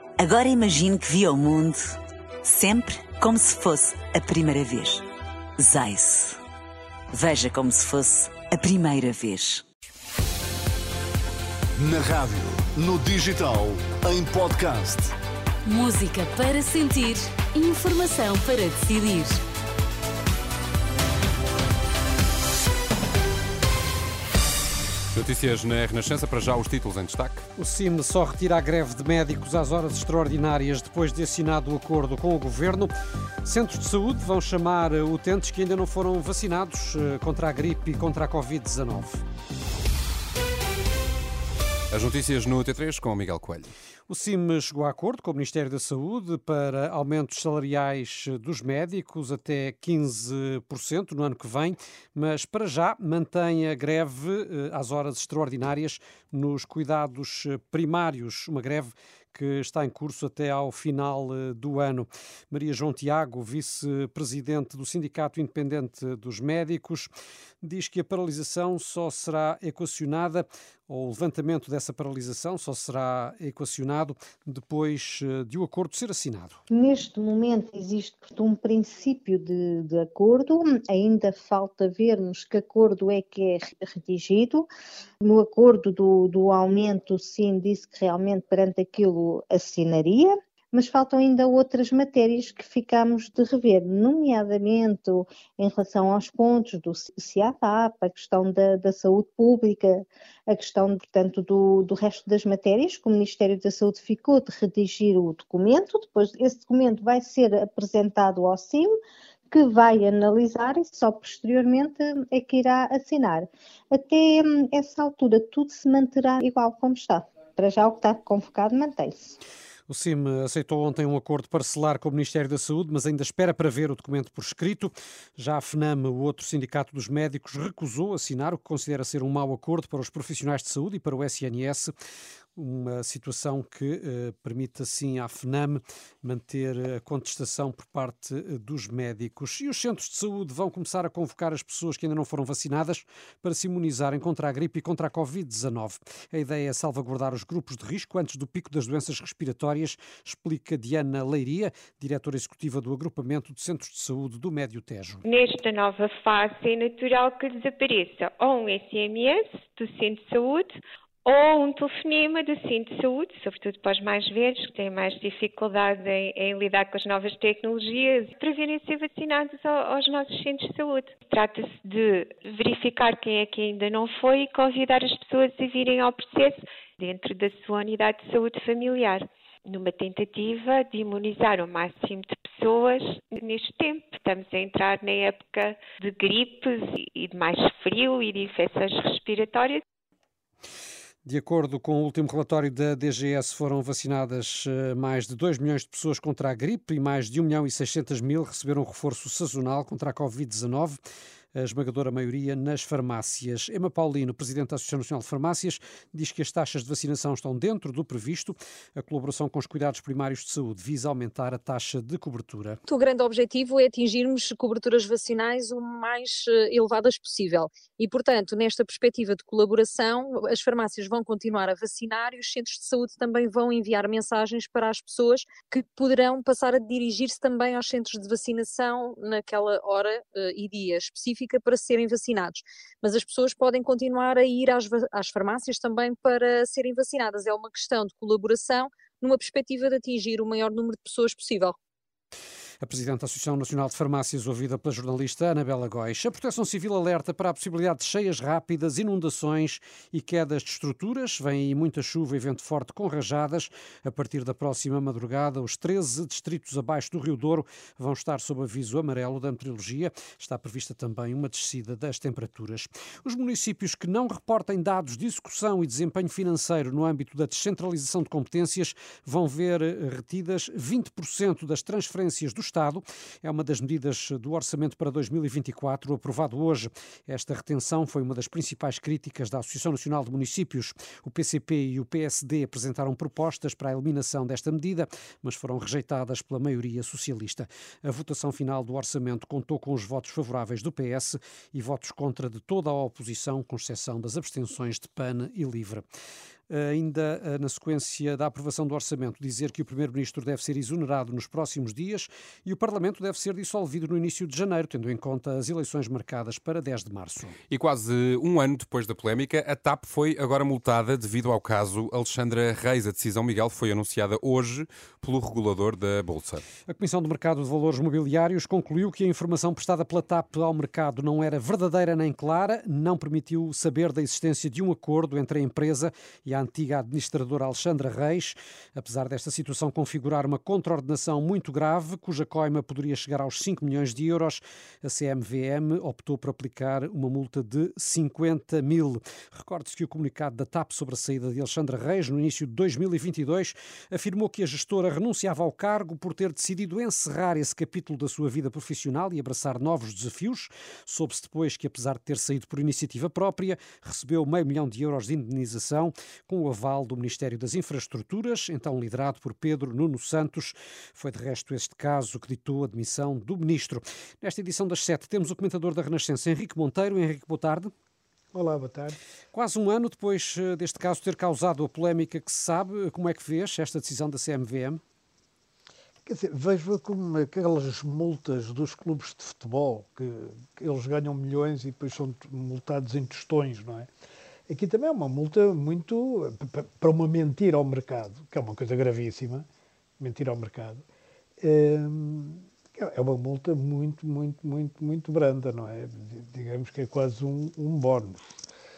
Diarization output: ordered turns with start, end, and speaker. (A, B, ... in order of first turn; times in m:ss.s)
0:00.2-0:01.9 A
0:02.4-0:05.0 A
0:05.6-0:06.4 A
0:07.1-0:09.6 A
0:11.8-0:15.1 B
0:15.6-0:19.4 C
0:25.1-0:27.4 D
0:27.6-0:32.9 E
0:33.4-0:39.2 E
0:41.9-0:43.7 D
0:44.1-1:07.1 E
1:07.6-1:16.6 E
1:16.7-1:24.7 F
1:25.2-1:48.9 F
1:49.5-1:59.4 F
1:59.9-2:11.9 E
2:12.6-2:35.2 E
2:35.2-3:09.8 G
3:11.2-3:21.0 E
3:21.5-3:32.8 E
3:32.9-4:01.7 H
4:02.8-4:56.0 E
4:56.7-5:07.6 E
5:07.7-5:16.6 D
5:16.9-6:07.9 E
6:08.5-6:09.2 I
6:09.5-6:15.0 E
6:16.2-6:24.1 I
6:24.7-6:29.6 I
6:30.2-6:31.0 I
6:31.6-6:38.4 I